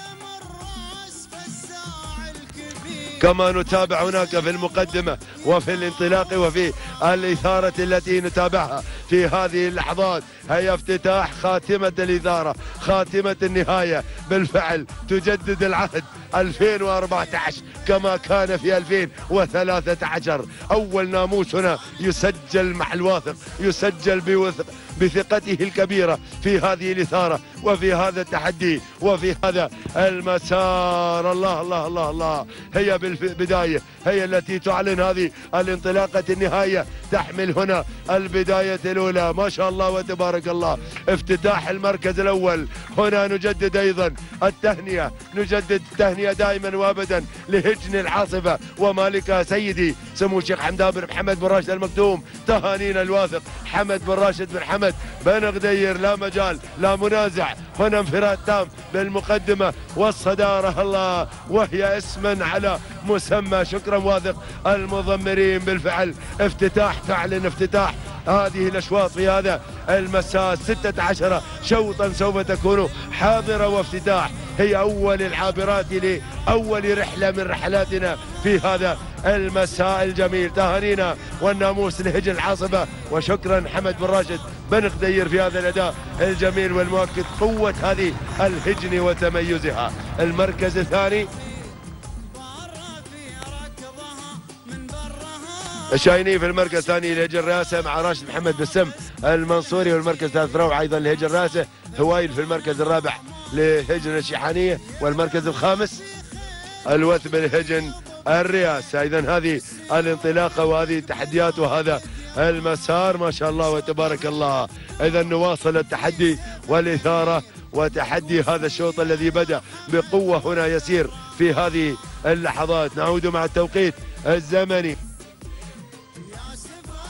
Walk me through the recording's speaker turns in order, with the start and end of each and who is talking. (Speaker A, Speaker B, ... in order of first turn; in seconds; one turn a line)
Speaker A: 3.2-91.3
Speaker A: 95.9-106.0
Speaker A: 106.9-125.0